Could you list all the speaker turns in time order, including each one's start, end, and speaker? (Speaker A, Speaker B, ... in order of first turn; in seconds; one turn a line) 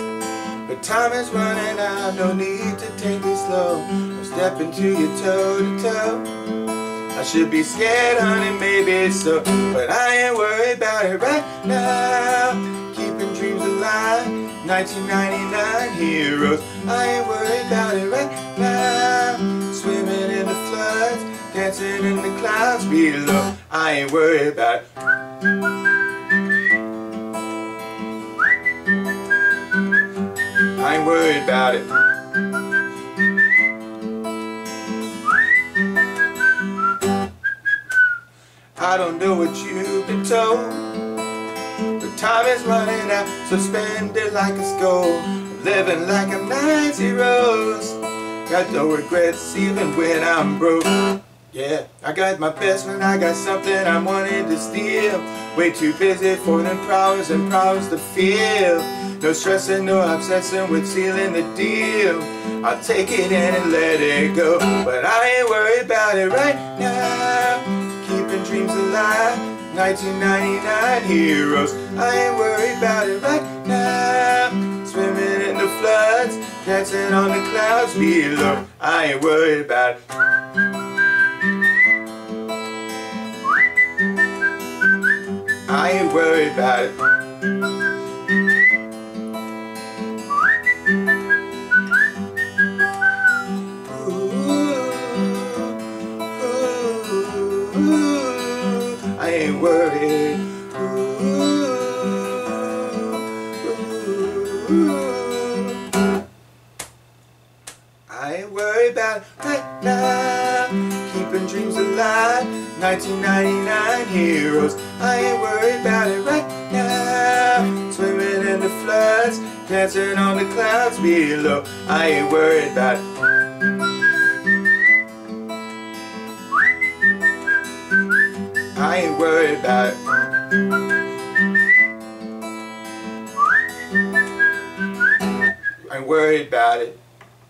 Speaker A: 0.6-6.3
Speaker A: 7.1-24.9
Speaker A: 30.8-31.9
Speaker A: 38.8-41.0
Speaker A: 42.0-80.0
Speaker A: 85.7-87.2
Speaker A: 93.8-105.9
Speaker A: 108.1-123.1
Speaker A: 128.7-130.2
Speaker A: 135.8-137.0